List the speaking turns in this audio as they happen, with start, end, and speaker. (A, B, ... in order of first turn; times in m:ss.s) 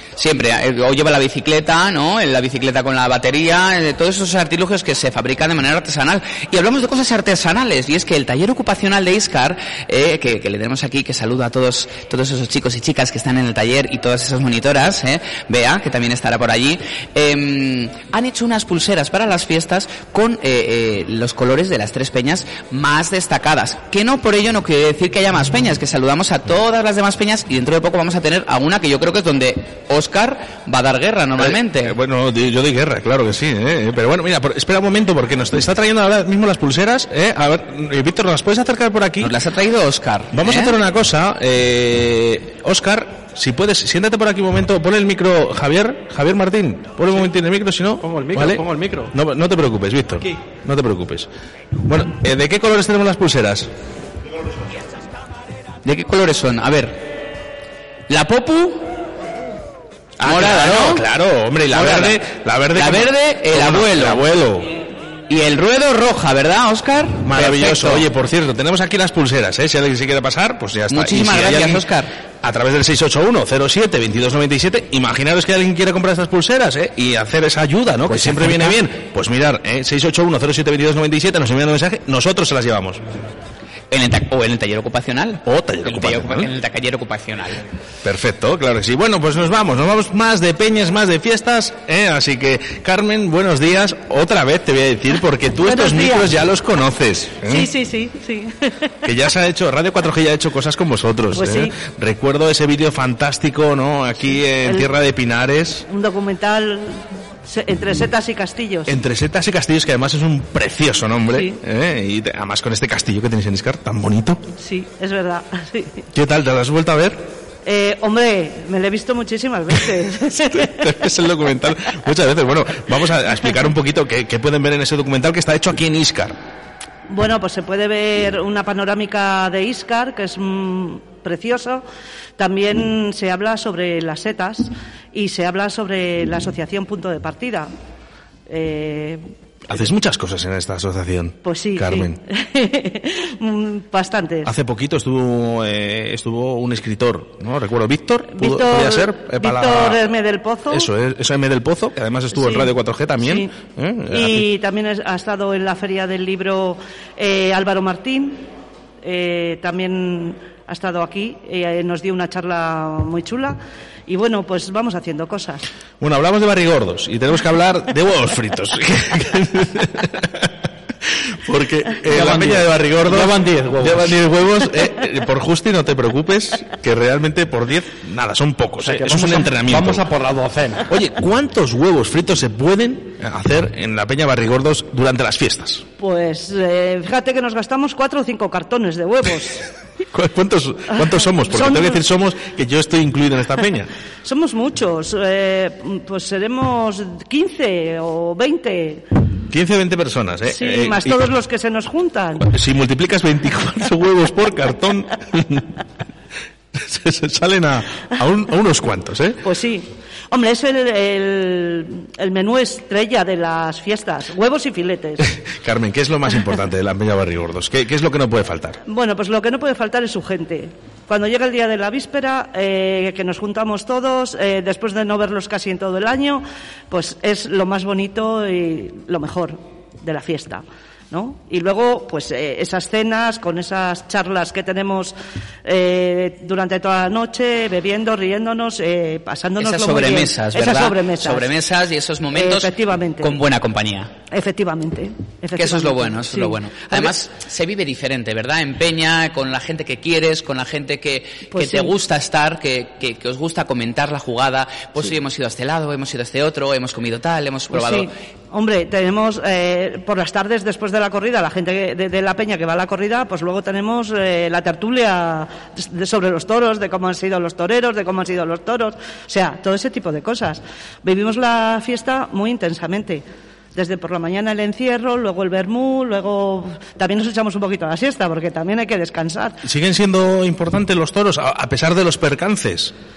0:00.2-0:32.0 A
0:31.4-0:39.3 B
0:39.2-0:40.8 A
0:40.3-0:51.3 B
0:48.0-0:49.1 C
0:51.9-0:53.7 B
0:55.8-0:57.0 A
0:58.1-0:58.8 A
1:00.2-1:04.7 B
1:00.2-1:01.0 A
1:01.7-1:02.2 A
1:02.8-1:04.3 A
1:05.3-1:08.1 A
1:07.2-1:11.8 B
1:10.9-1:12.1 A
1:12.4-1:23.0 B
1:18.1-1:18.8 A
1:23.9-1:27.6 A
1:25.4-1:26.5 B
1:28.0-1:37.7 B
1:35.6-1:36.3 D
1:37.4-1:38.9 D
1:39.0-1:45.8 B
1:41.3-1:41.7 D
1:44.2-1:44.9 D
1:45.9-1:49.0 D
1:48.9-1:54.4 B
1:51.3-1:51.6 D
1:54.6-1:56.1 D
1:56.1-1:57.2 B
1:57.7-2:01.1 D
2:00.7-2:06.4 B
2:07.1-2:11.8 D
2:12.4-2:17.7 D
2:18.5-2:19.9 D
2:19.7-2:22.2 B
2:21.4-2:24.5 D
2:24.4-2:30.0 B
2:28.3-2:30.9 D
2:30.7-2:34.5 B
2:32.3-2:33.5 D
2:34.1-2:38.4 D
2:39.0-2:45.6 D
2:46.0-2:50.5 B
2:51.4-3:00.1 B
2:52.1-2:54.2 C
2:58.8-3:00.8 C
3:00.9-3:05.9 B
3:06.0-3:09.6 D
3:10.1-3:13.9 B
3:10.9-3:12.0 D
3:14.2-3:19.0 D
3:19.5-3:21.3 B
3:20.5-3:22.5 D
3:22.4-3:25.7 B
3:26.7-3:29.4 B
3:29.4-3:35.3 D
3:35.4-3:38.8 B
3:38.9-3:55.1 D
3:55.6-4:01.6 D
3:59.6-4:04.1 A
4:02.3-4:03.4 D
4:04.3-4:07.2 D
4:05.6-4:18.1 A
4:11.5-4:11.9 D
4:17.7-4:33.2 D
4:33.8-4:39.6 D
4:39.6-4:42.9 B